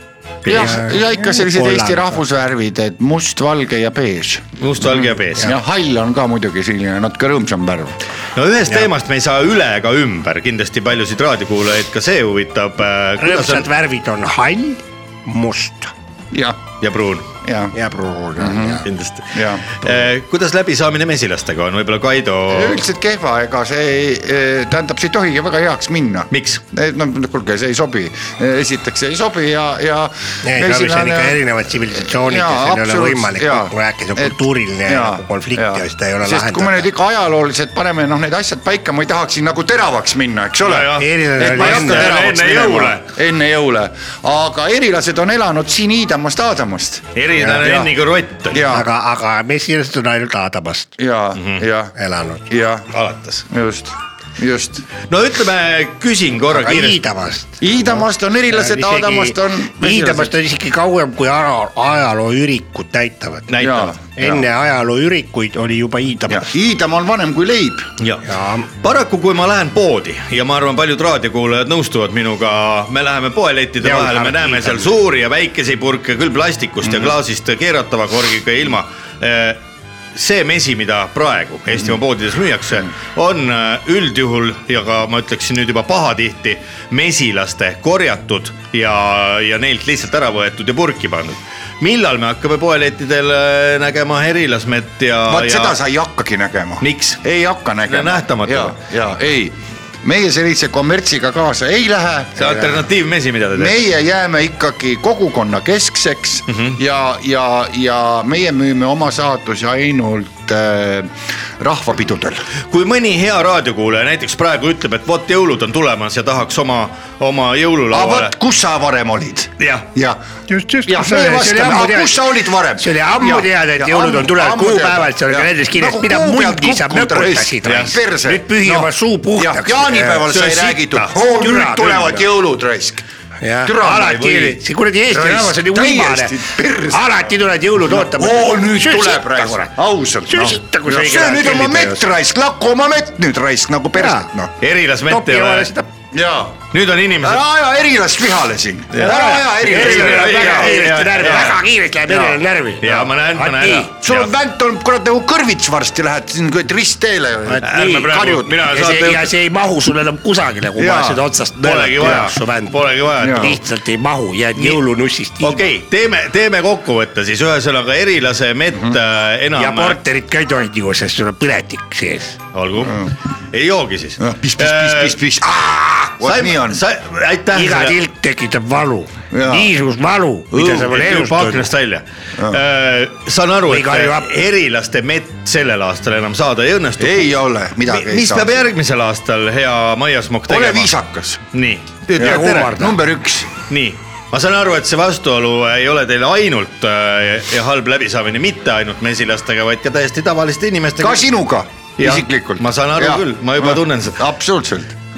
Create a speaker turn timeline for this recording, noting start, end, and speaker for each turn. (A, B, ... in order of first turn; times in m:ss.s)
0:00.4-0:00.8 A
0:00.4-0:04.4 B
0:00.5-0:02.2 C
0:04.6-0:05.5 A
0:05.4-0:08.0 B
0:08.3-0:13.7 A
0:13.2-0:15.9 C
0:16.3-0:16.6 B
0:16.8-0:17.3 A
0:17.4-0:17.8 B
0:17.7-0:18.8 C
0:18.4-0:20.0 B
0:18.8-0:22.8 A
0:22.5-0:31.4 B
0:26.3-0:26.6 A
0:30.4-0:36.9 C
0:31.9-0:47.9 B
0:40.6-0:43.0 A
0:41.0-0:42.2 C
0:47.1-0:48.7 A
0:48.5-0:48.9 B
0:48.7-0:50.9 C
0:51.0-0:51.9 B
0:51.4-0:51.6 A
0:52.0-0:52.4 C
0:52.5-0:52.9 B
0:52.9-0:53.4 A
0:53.5-0:54.8 B
0:55.1-0:57.0 A
0:56.5-0:57.5 C
0:57.6-1:00.3 B
0:58.5-1:03.4 C
1:03.5-1:03.9 A
1:03.6-1:04.4 B
1:04.2-1:06.4 C
1:06.3-1:07.9 B
1:08.0-1:08.2 A
1:08.3-1:08.7 C
1:08.8-1:19.6 A
1:13.9-1:14.5 B
1:16.9-1:17.1 B
1:20.1-1:35.8 A
1:35.3-1:42.9 B
1:36.8-1:37.2 A
1:37.9-1:38.8 A
1:42.4-1:43.8 A
1:43.5-1:52.4 B
1:46.5-1:46.8 A
1:52.7-1:58.3 A
1:57.9-2:00.2 B
1:59.6-1:59.9 A
2:00.5-2:02.2 C
2:00.8-2:13.0 B
2:02.8-2:10.3 C
2:07.6-2:08.0 A
2:10.3-2:11.1 A
2:11.3-2:12.2 C
2:13.4-2:16.4 C
2:13.6-2:17.2 B
2:16.9-2:19.7 C
2:17.8-2:24.5 B
2:20.3-2:22.0 C
2:24.0-2:24.2 C
2:24.6-2:25.7 A
2:25.1-2:25.8 C
2:26.1-2:26.6 B
2:26.7-2:27.4 A
2:27.2-2:31.6 B
2:28.9-2:31.6 A
2:29.0-2:33.9 C
2:32.1-2:32.4 B
2:32.8-2:34.3 A
2:34.0-2:39.0 B
2:37.5-2:42.8 C
2:37.6-2:39.3 A
2:40.8-2:41.2 B
2:41.6-2:43.6 A
2:43.2-2:43.6 B
2:43.3-2:45.6 C
2:44.5-2:44.8 A
2:45.4-2:50.0 A
2:49.6-2:52.4 C
2:52.5-2:55.2 A
2:52.8-2:53.1 B
2:54.2-2:56.8 B
2:56.2-2:58.0 A
2:57.5-3:01.7 C
2:59.3-2:59.7 B
3:00.5-3:07.3 A
3:00.6-3:00.9 B
3:02.4-3:02.6 B
3:03.7-3:04.3 C
3:07.0-3:08.6 B
3:07.8-3:10.9 A
3:10.5-3:11.4 B
3:11.5-3:13.0 A
3:12.2-3:13.5 B
3:12.2-3:12.9 C
3:13.7-3:21.3 A
3:21.0-3:24.9 B
3:22.0-3:24.2 A